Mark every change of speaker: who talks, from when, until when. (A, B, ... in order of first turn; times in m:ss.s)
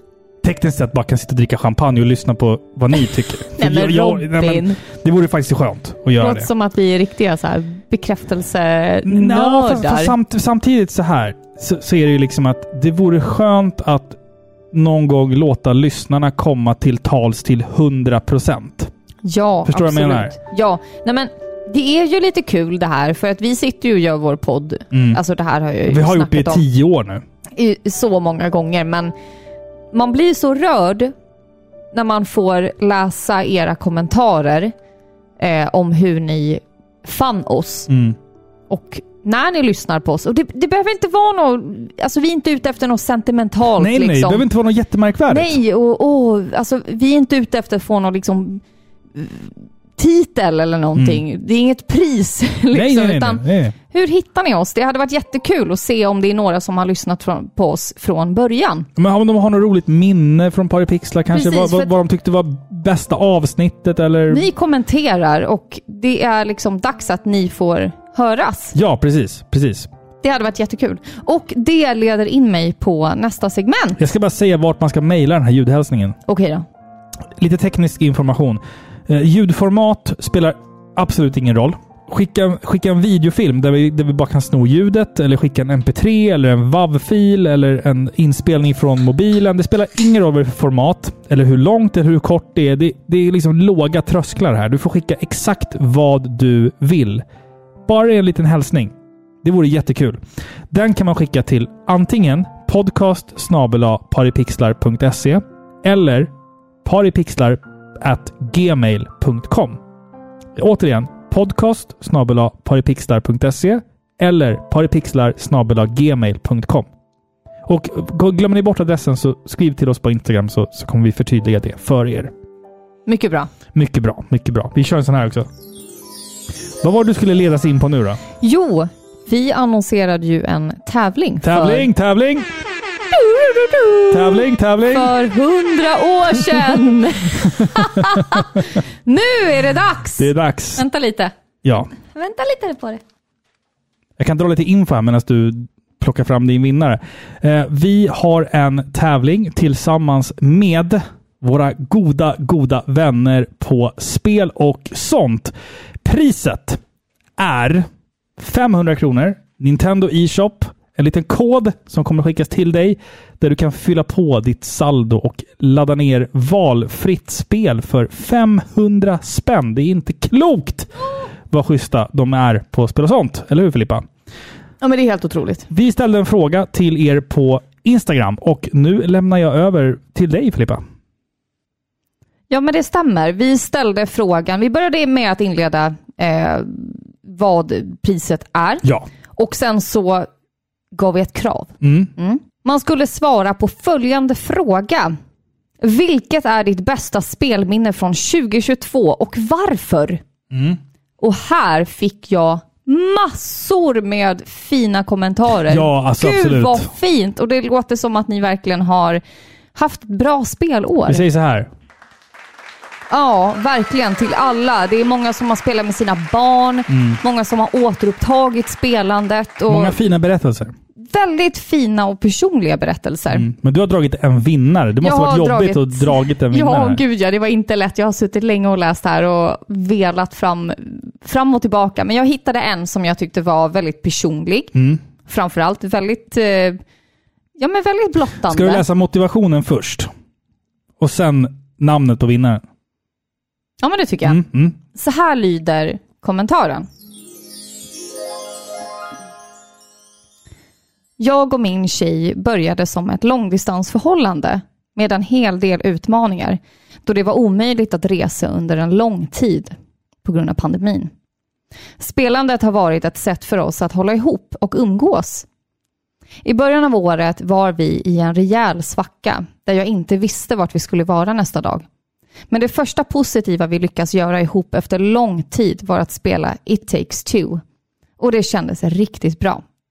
0:00.4-0:06.5 A
0:03.6-0:04.8 B
0:06.2-0:10.2 B
0:09.0-0:14.2 A
0:14.7-0:18.9 A
0:19.2-0:26.6 B
0:19.6-0:20.4 A
0:24.9-0:25.2 A
0:25.9-0:27.2 A
0:27.6-0:29.1 B
0:29.9-0:31.1 B
0:31.9-0:34.7 B
0:35.4-0:37.9 B
0:37.9-0:38.2 A
0:38.7-0:44.5 B
0:43.8-0:45.6 A
0:45.3-0:48.6 B
0:49.2-0:58.9 B
0:51.0-0:51.2 A
0:52.7-0:53.8 A
0:59.0-1:04.4 A
1:01.3-1:01.9 B
1:04.3-1:08.8 B
1:08.7-1:09.9 A
1:10.2-1:14.0 B
1:14.0-1:16.2 A
1:16.3-1:16.6 B
1:17.4-1:37.2 A
1:37.9-1:46.3 A
1:46.8-1:49.8 A
1:50.6-1:56.9 A
1:57.7-2:02.3 A
2:03.1-2:03.5 B
2:03.7-2:05.5 A
2:06.8-2:08.2 A
2:08.4-2:11.9 B
2:11.4-2:12.5 A
2:13.1-2:21.3 B
2:14.1-2:15.2 A
2:17.4-2:18.6 A
2:20.2-2:20.8 A
2:21.6-2:21.9 A
2:22.1-2:23.0 B
2:24.2-2:36.8 A
2:37.4-2:50.9 A
2:51.5-2:54.1 A
2:54.8-2:55.7 B
2:55.7-3:00.8 A
3:02.5-3:08.8 B
3:09.4-3:10.3 B
3:11.0-3:15.2 B
3:11.8-3:12.1 A
3:15.8-3:20.2 B
3:20.5-3:20.8 A
3:21.2-3:29.2 B
3:25.7-3:26.9 A
3:29.8-3:31.2 B
3:31.1-3:31.7 A
3:33.1-3:40.0 B
3:36.9-3:37.2 A
3:39.7-3:40.7 A
3:41.0-3:43.5 B
3:43.3-3:47.0 A
3:45.0-3:54.7 B
3:54.7-3:55.0 A
3:55.2-3:56.8 B
3:57.6-3:58.9 B
3:58.4-4:00.1 A
4:01.0-4:02.6 A
4:03.8-4:04.4 B
4:04.2-4:04.8 A
4:04.9-4:06.9 B
4:11.2-4:21.1 B
4:22.0-4:25.5 B
4:26.4-4:31.8 B
4:32.5-4:37.6 B
4:38.2-4:39.6 B